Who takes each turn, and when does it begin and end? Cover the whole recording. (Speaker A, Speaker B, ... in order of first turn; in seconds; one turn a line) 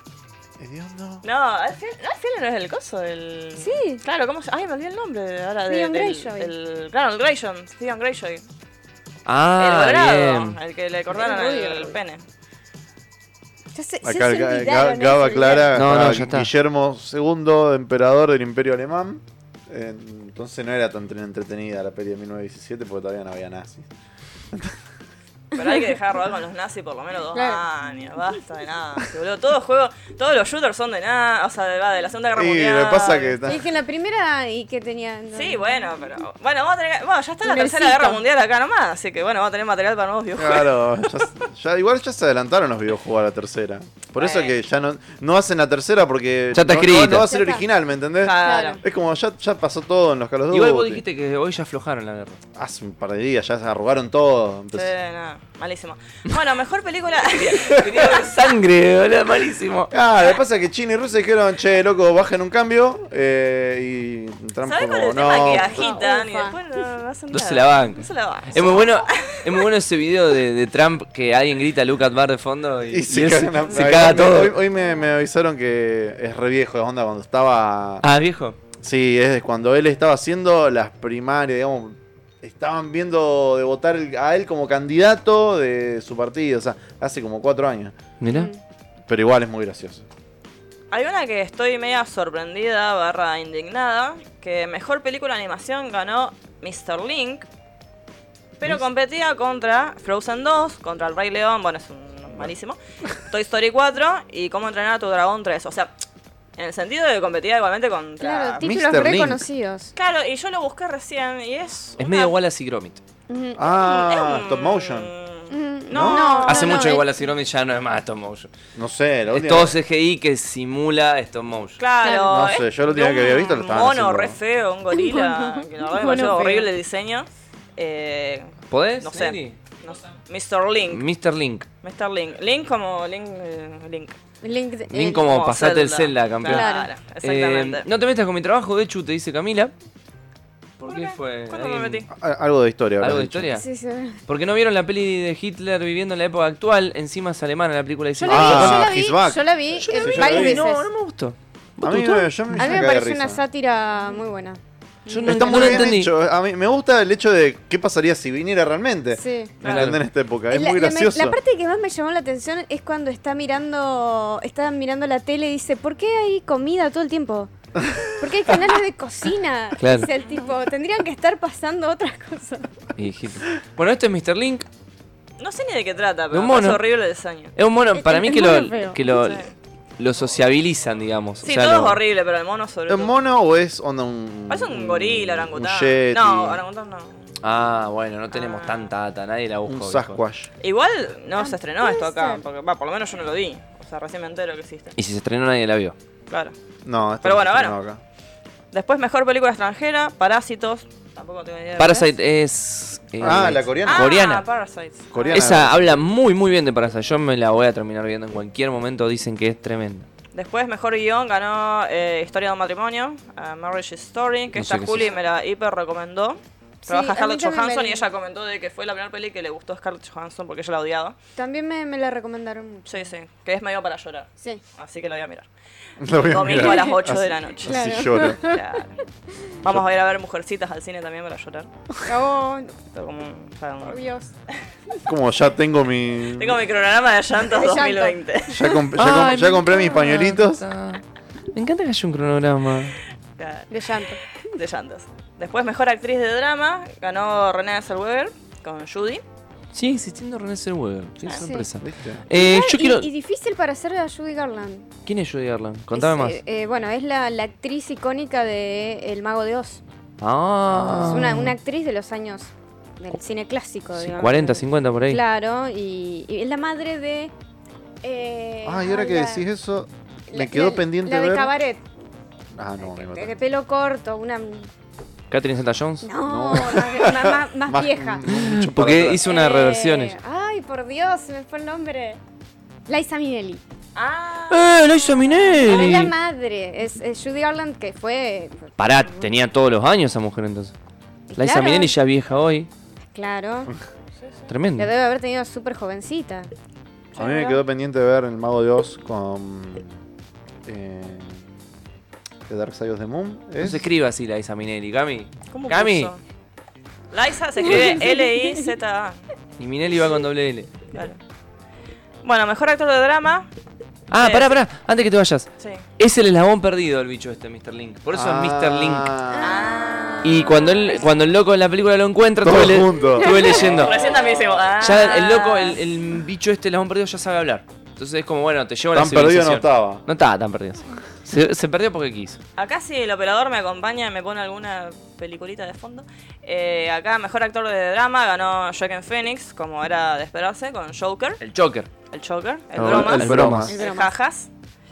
Speaker A: 0.6-1.2
Speaker B: 1.2-8.4
Speaker C: 3.6-4.0
Speaker C: 5.7-6.5
Speaker D: 9.3-10.6
Speaker B: 9.6-12.2
Speaker C: 11.1-12.0
Speaker C: 13.7-15.7
Speaker A: 14.0-23.9
Speaker D: 15.7-16.5
Speaker A: 24.5-24.8
Speaker B: 25.5-33.5
Speaker C: 27.3-27.6
Speaker A: 32.4-33.6
Speaker C: 33.5-35.8
Speaker B: 35.3-41.2
Speaker C: 37.4-38.2
Speaker A: 40.4-51.0
Speaker B: 44.2-44.5
Speaker D: 46.5-47.3
Speaker C: 47.2-47.7
Speaker B: 48.2-48.8
Speaker C: 48.3-48.8
Speaker D: 50.5-52.4
Speaker A: 52.5-54.9
Speaker B: 54.8-58.3
Speaker D: 57.3-59.9
Speaker A: 59.9-65.8
Speaker B: 64.7-69.7
Speaker C: 65.5-66.6
Speaker D: 67.3-74.6
Speaker A: 72.9-78.0
Speaker D: 78.0-78.6
Speaker A: 78.8-88.0
Speaker D: 88.2-88.5
Speaker C: 88.3-88.6
Speaker A: 89.1-90.1
Speaker B: 90.9-97.5
Speaker B: 98.6-105.9
Speaker B: 106.6-108.7
Speaker C: 108.2-109.9
Speaker A: 108.6-109.5
Speaker B: 110.0-112.4
Speaker D: 112.0-113.0
Speaker C: 113.3-113.7
Speaker A: 113.6-115.1
Speaker B: 113.7-117.0
Speaker C: 115.5-117.1
Speaker A: 115.9-116.3
Speaker D: 116.4-118.5
Speaker A: 118.8-119.8
Speaker D: 119.3-121.8
Speaker B: 121.8-131.1
Speaker C: 122.0-122.3
Speaker A: 122.3-124.4
Speaker C: 124.9-126.7
Speaker D: 128.7-129.6
Speaker D: 130.9-131.7
Speaker B: 131.8-134.2
Speaker C: 134.4-135.2
Speaker D: 134.9-136.7
Speaker B: 135.2-137.9
Speaker C: 136.4-136.9
Speaker D: 137.2-139.7
Speaker D: 140.8-142.1
Speaker B: 140.9-142.1
Speaker A: 142.1-143.5
Speaker D: 143.0-143.7
Speaker C: 143.5-144.2
Speaker D: 144.3-149.0
Speaker C: 148.2-150.9
Speaker A: 148.2-150.7
Speaker D: 149.8-152.9
Speaker A: 151.8-153.4
Speaker C: 152.6-155.9
Speaker D: 155.1-156.1
Speaker A: 155.2-161.4
Speaker C: 159.1-159.5
Speaker B: 159.6-159.9
Speaker D: 159.6-160.0
Speaker C: 160.5-167.5
Speaker A: 167.8-168.3
Speaker C: 168.2-172.7
Speaker D: 169.8-170.1
Speaker B: 170.2-170.5
Speaker D: 173.0-174.7
Speaker B: 175.4-177.6
Speaker D: 176.3-176.8
Speaker D: 177.6-182.0
Speaker C: 177.9-179.0
Speaker B: 179.0-179.5
Speaker B: 181.4-183.2
Speaker A: 182.9-186.6
Speaker B: 184.5-187.3
Speaker D: 187.4-190.2
Speaker B: 188.3-188.9
Speaker A: 189.7-190.5
Speaker B: 190.6-194.9
Speaker C: 191.4-192.4
Speaker D: 195.0-196.0
Speaker B: 196.3-196.6
Speaker A: 196.8-198.0
Speaker B: 197.2-197.8
Speaker B: 198.7-202.1
Speaker D: 201.8-204.4
Speaker A: 203.2-204.1
Speaker B: 203.8-205.6
Speaker A: 205.1-206.0
Speaker D: 205.3-210.1
Speaker B: 210.3-221.2
Speaker D: 214.6-215.1
Speaker C: 216.8-218.1
Speaker C: 221.4-223.1
Speaker B: 222.9-225.5
Speaker A: 226.0-228.4
Speaker B: 226.2-229.0
Speaker C: 226.4-228.6
Speaker B: 229.6-231.7
Speaker C: 232.1-232.8
Speaker B: 232.9-234.0
Speaker C: 233.8-234.3
Speaker A: 235.1-236.6
Speaker B: 236.3-238.8
Speaker C: 237.4-238.8
Speaker A: 238.5-240.7
Speaker D: 239.0-241.0
Speaker D: 241.5-243.0
Speaker B: 243.4-243.9
Speaker C: 243.7-244.2
Speaker B: 244.5-249.2
Speaker D: 249.7-253.1
Speaker B: 251.2-251.5
Speaker C: 251.3-251.7
Speaker A: 251.8-252.2
Speaker C: 252.3-254.9
Speaker D: 255.1-256.4
Speaker C: 255.9-259.8
Speaker D: 260.2-261.6
Speaker C: 260.8-267.3
Speaker D: 263.9-265.2
Speaker C: 268.0-269.5
Speaker A: 268.6-271.5
Speaker C: 270.3-271.8
Speaker A: 272.6-273.3
Speaker C: 272.8-274.7
Speaker D: 275.3-276.1
Speaker C: 276.0-278.3
Speaker A: 276.2-279.2
Speaker D: 278.3-280.2
Speaker C: 279.2-282.2
Speaker C: 282.9-283.6
Speaker B: 283.9-284.9
Speaker D: 284.5-286.1
Speaker C: 285.6-289.2
Speaker D: 288.8-290.8
Speaker C: 291.3-291.9
Speaker D: 291.4-292.7
Speaker C: 293.1-293.7
Speaker D: 294.5-294.9
Speaker C: 294.8-296.5
Speaker B: 297.2-297.6
Speaker A: 297.2-300.0
Speaker A: 300.6-301.5
Speaker A: 302.5-303.9
Speaker D: 303.6-306.1
Speaker B: 305.5-306.2
Speaker B: 307.1-309.2
Speaker C: 307.7-308.6
Speaker D: 309.6-310.7
Speaker B: 310.9-311.2
Speaker B: 312.2-313.5
Speaker D: 314.1-319.1
Speaker B: 314.1-314.6
Speaker B: 315.6-315.8
Speaker A: 318.1-319.7
Speaker C: 319.3-320.9
Speaker B: 319.4-321.0
Speaker D: 320.2-324.1
Speaker A: 322.4-323.9
Speaker C: 323.2-323.6
Speaker B: 323.5-325.8
Speaker D: 324.8-332.4
Speaker A: 328.9-330.0
Speaker B: 332.6-341.4
Speaker D: 341.4-341.9
Speaker B: 342.1-344.5
Speaker A: 342.8-343.8
Speaker D: 342.8-343.7
Speaker C: 343.6-344.1